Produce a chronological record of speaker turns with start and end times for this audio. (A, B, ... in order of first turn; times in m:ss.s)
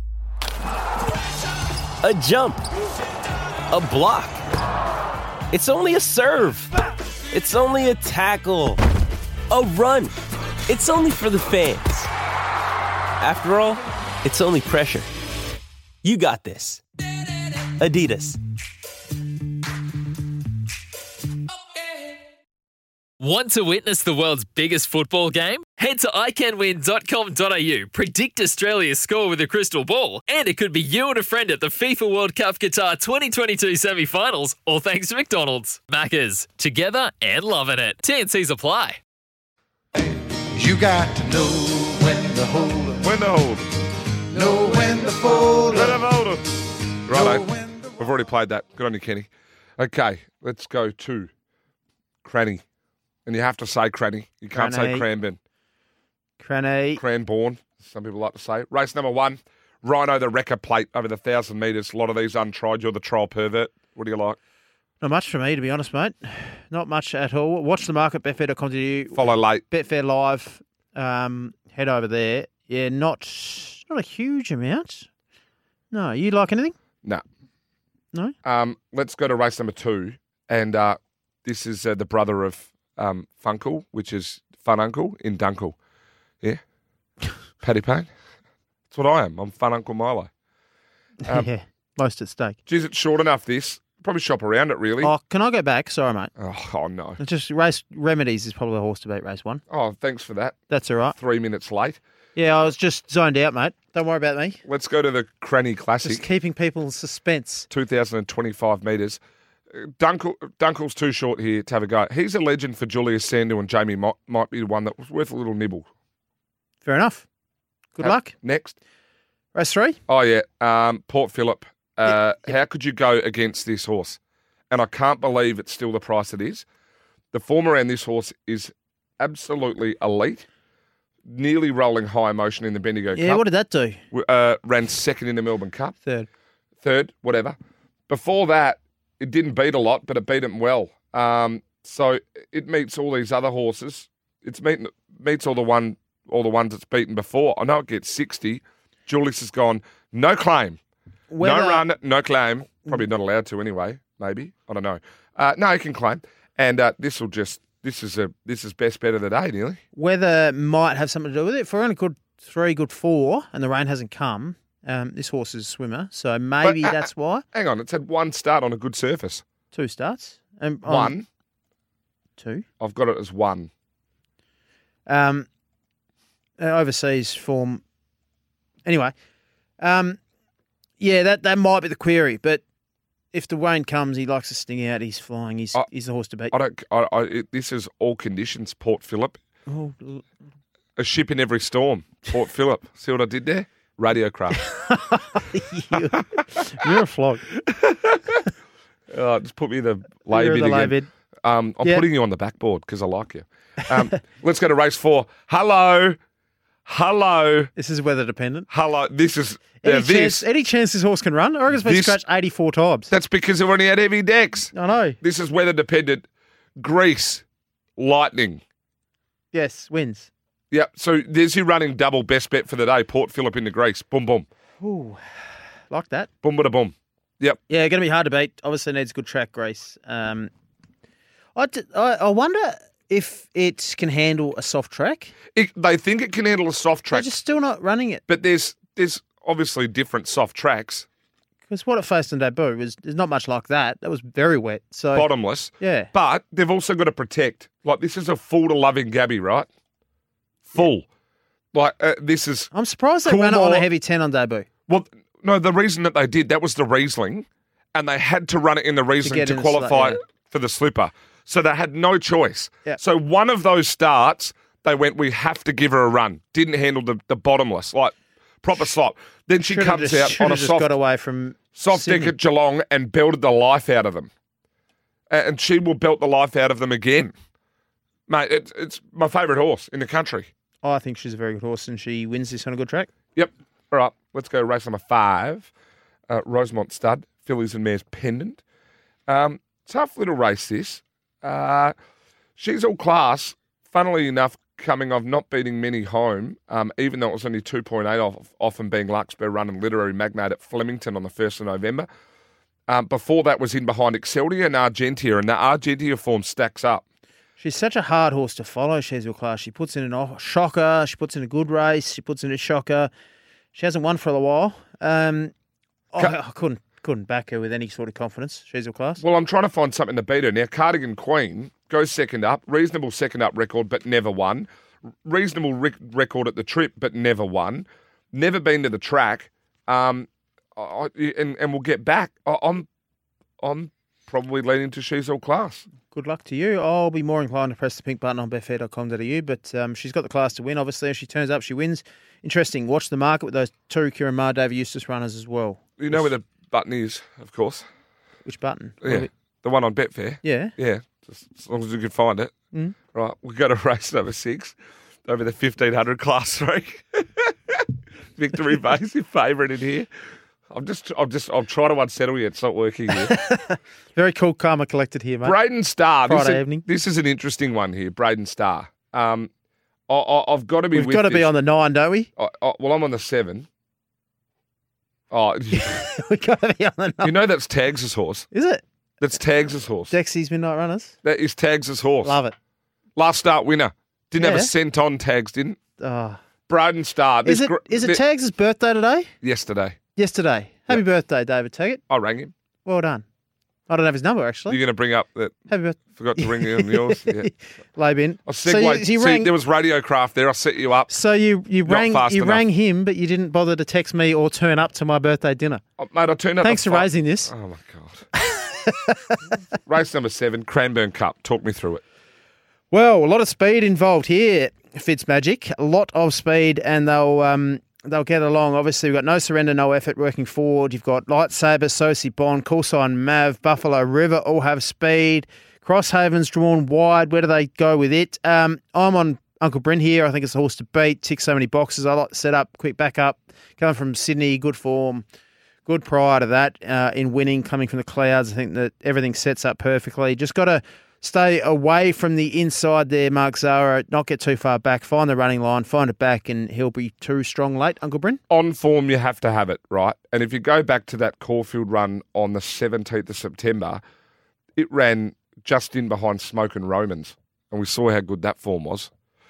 0:02.0-0:02.6 A
0:03.7-0:04.4 A
0:05.5-0:06.7 A
0:07.3-0:08.8 A
0:09.5-0:10.1 A
0:10.7-0:12.1 A
0:13.2-0:15.1 A
0:16.0-0:16.8 A
0:17.8-0:18.4 A
0:23.2-0:39.0 B
0:40.5-0:43.0 C
0:43.0-0:43.7 D
0:44.3-0:46.0 C
0:45.7-0:46.4 D
0:47.1-0:51.3 D
0:47.1-0:47.9 C
0:52.2-0:52.6 D
0:53.2-0:55.4 D
0:54.5-0:55.1 E
0:56.4-0:57.0 E
0:57.0-1:04.4 D
1:05.0-1:15.1 E
1:09.1-1:09.6 D
1:15.9-1:16.8 E
1:18.4-1:25.8 D
1:27.6-1:28.1 D
1:28.9-1:30.3 D
1:31.2-1:32.6 E
1:32.7-1:35.1 D
1:35.0-1:36.3 E
1:36.4-1:37.2 D
1:37.2-1:39.6 E
1:39.7-1:40.6 D
1:40.7-1:41.2 E
1:41.1-1:42.0 D
1:42.3-1:44.6 E
1:44.6-1:46.2 D
1:46.0-1:47.7 E
1:47.7-1:49.2 D
1:49.7-1:55.8 D
1:56.8-1:57.2 E
1:57.9-1:58.3 E
1:58.0-1:58.8 D
1:59.5-2:00.0 E
2:00.1-2:04.2 D
2:04.7-2:06.6 D
2:07.3-2:10.4 D
2:11.3-2:13.4 D
2:13.1-2:14.0 E
2:14.1-2:15.9 D
2:16.8-2:17.6 D
2:18.1-2:30.8 D
2:31.3-2:31.8 E
2:31.4-2:39.8 D
2:39.9-2:47.4 E
2:46.6-2:49.4 D
2:49.7-2:51.2 E
2:50.8-2:51.2 D
2:52.4-2:52.6 E
2:52.8-2:53.7 D
2:55.1-2:55.5 E
2:56.6-2:57.8 E
2:58.8-2:59.1 E
2:59.8-3:00.2 E
3:01.0-3:02.6 E
3:03.3-3:06.5 E
3:06.5-3:09.4 D
3:09.7-3:10.2 E
3:11.0-3:14.6 D
3:14.5-3:17.5 E
3:17.7-3:18.4 D
3:19.1-3:26.2 D
3:20.3-3:21.1 E
3:26.8-3:27.7 D
3:27.8-3:28.7 E
3:28.7-3:30.4 D
3:29.8-3:33.1 E
3:31.8-3:32.2 D
3:33.1-3:36.2 D
3:34.7-3:35.2 E
3:36.8-3:37.4 D
3:38.0-3:38.6 D
3:39.5-3:40.3 E
3:40.7-3:44.5 D
3:44.8-3:45.2 E
3:45.9-3:46.3 E
3:46.4-3:47.6 D
3:47.7-3:50.5 E
3:51.6-3:55.3 E
3:55.5-3:57.3 D
3:57.1-3:58.2 E
3:58.3-4:01.0 D
4:01.7-4:05.3 E
4:05.1-4:09.7 D
4:05.8-4:06.1 E
4:10.7-4:11.0 D
4:11.7-4:12.7 D
4:12.7-4:14.7 E
4:13.2-4:13.8 D
4:14.9-4:30.9 D
4:19.2-4:20.2 E
4:29.6-4:32.3 E
4:31.7-4:34.3 D
4:35.3-4:37.3 D
4:38.3-4:40.5 D
4:40.8-4:43.1 E
4:43.4-4:45.7 D
4:46.3-4:48.6 D
4:49.3-4:51.9 D
4:52.6-5:02.1 D
5:02.9-5:07.0 D
5:07.6-5:13.1 E
5:13.7-5:15.5 E
5:16.1-5:19.2 E
5:19.2-5:24.7 D
5:25.2-5:32.8 D
5:33.6-5:35.8 D
5:36.1-5:46.3 E
5:46.0-5:47.8 D
5:48.4-5:49.3 E
5:49.0-5:52.5 D
5:50.4-5:50.7 E
5:53.1-5:57.8 D
5:58.4-6:00.1 D
6:00.7-6:03.3 D
6:03.2-6:05.6 E
6:05.4-6:09.5 D
6:06.2-6:06.8 E
6:10.1-6:11.5 D
6:10.9-6:12.3 E
6:12.4-6:13.7 D
6:15.3-6:16.1 D
6:15.7-6:17.3 E
6:17.2-6:18.5 D
6:18.5-6:18.8 E
6:19.2-6:20.1 D
6:20.1-6:21.1 E
6:21.2-6:22.4 D
6:22.2-6:22.5 E
6:23.2-6:25.8 D
6:24.4-6:24.7 E
6:26.0-6:26.4 E
6:26.7-6:28.2 D
6:27.4-6:29.3 E
6:29.4-6:30.0 D
6:30.2-6:32.0 E
6:32.1-6:32.5 D
6:32.8-6:33.2 E
6:33.9-6:34.8 E
6:34.7-6:35.5 D
6:35.7-6:39.5 E
6:36.2-6:37.5 D
6:38.4-6:41.1 D
6:41.1-6:45.8 E
6:41.9-6:42.6 D
6:46.0-6:48.3 D
6:46.6-6:47.5 E
6:48.4-6:49.4 E
6:49.8-6:52.0 D
6:52.9-7:15.2 E
7:15.8-7:28.4 E
7:28.5-7:34.0 D
7:34.8-7:39.1 D